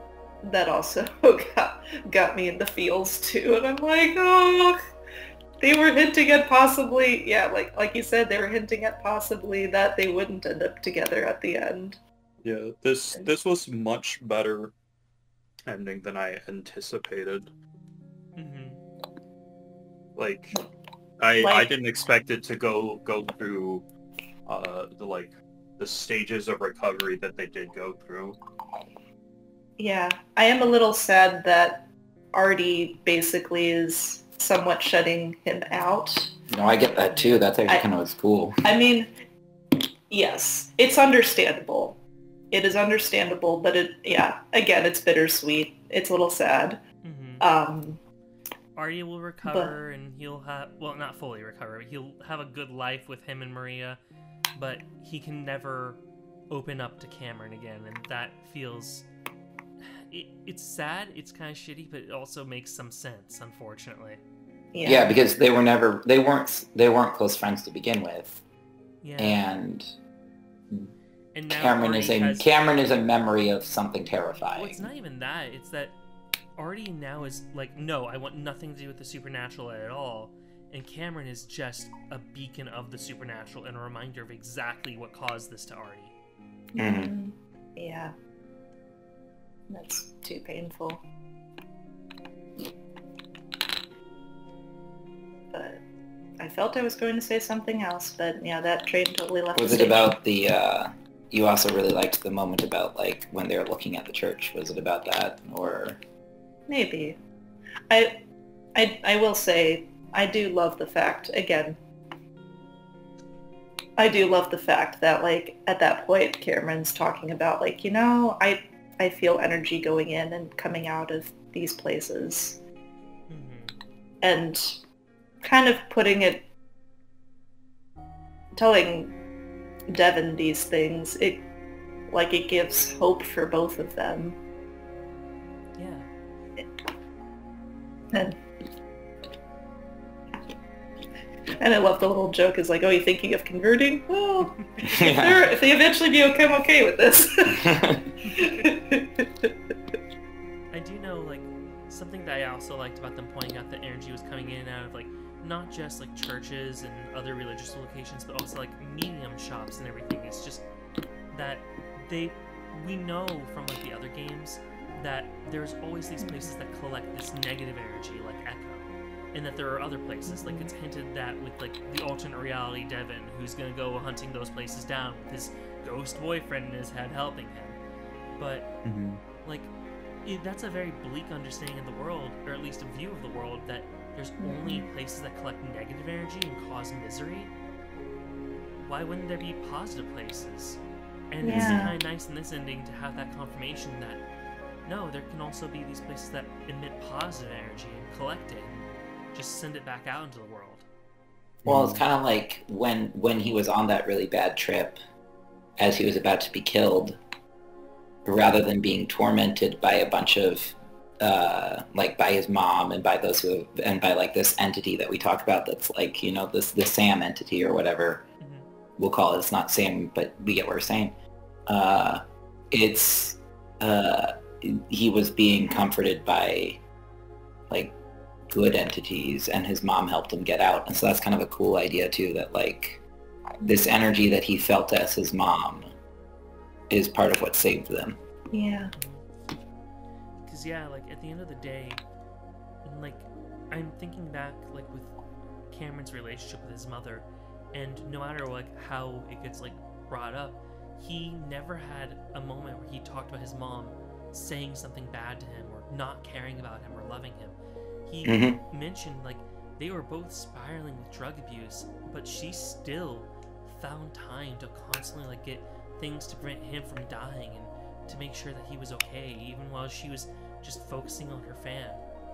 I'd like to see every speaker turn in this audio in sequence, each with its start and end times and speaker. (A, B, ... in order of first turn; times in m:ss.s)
0:00.4-0:04.8 A
0:05.6-0:12.0 A
0:12.4-0:14.7 B
0:15.7-0:17.5 B
0:18.4-0:18.8 C
0:20.2-0:20.6 B
0:21.2-0:23.8 B
0:21.4-0:21.8 A
0:24.5-0:28.4 B
0:29.8-0:36.4 A
0:36.5-0:38.6 D
0:37.1-0:37.5 C
0:38.6-0:39.1 A
0:40.1-0:42.0 A
0:42.5-0:46.8 A
0:47.0-0:47.4 C
0:47.4-0:48.0 A
0:48.8-0:54.0 C
0:49.4-0:49.8 A
0:54.6-0:59.1 C
1:00.1-1:04.2 C
1:04.7-1:05.1 A
1:04.8-1:08.4 D
1:09.0-1:09.4 C
1:09.2-1:10.0 D
1:11.3-1:12.5 C
1:11.5-1:14.8 D
1:14.6-1:16.0 C
1:16.6-1:26.1 C
1:26.8-1:28.1 A
1:26.8-1:27.1 D
1:29.7-1:31.0 A
1:35.5-1:35.8 A
1:36.4-1:40.1 A
1:39.6-1:46.0 D
1:46.7-1:47.2 A
1:47.9-1:48.2 A
1:48.8-1:51.8 A
1:54.0-2:02.6 A
2:03.3-2:03.8 C
2:04.2-2:04.8 A
2:05.4-2:06.5 A
2:08.6-2:09.2 A
2:09.9-2:11.5 A
2:12.1-2:14.4 A
2:15.8-2:16.1 C
2:18.1-2:18.4 A
2:21.6-2:27.7 A
2:24.4-2:25.2 C
2:24.8-2:25.5 D
2:27.5-2:28.0 D
2:28.2-2:28.7 C
2:28.3-2:29.5 A
2:30.7-2:40.7 C
2:41.3-2:57.8 C
2:46.2-2:46.5 A
2:50.3-2:50.7 A
2:58.4-2:58.7 C
2:58.8-2:59.2 B
2:59.4-2:59.7 C
3:00.2-3:07.5 C
3:04.4-3:04.9 A
3:08.8-3:10.8 C
3:11.3-3:14.2 C
3:11.4-3:12.0 A
3:11.5-3:11.8 D
3:14.8-3:20.8 C
3:21.6-3:22.0 B
3:21.7-3:25.0 D
3:25.8-3:27.2 D
3:28.2-3:38.3 D
3:38.4-3:38.7 C
3:39.0-3:41.1 D
3:41.7-3:46.8 D
3:47.7-3:48.0 D
3:48.5-3:53.0 D
3:53.6-3:55.9 D
3:56.9-3:58.2 D
3:58.5-3:58.9 A
3:59.0-3:59.3 C
4:00.4-4:02.0 C
4:02.8-4:05.1 C
4:05.7-4:32.0 C
4:18.2-4:18.6 D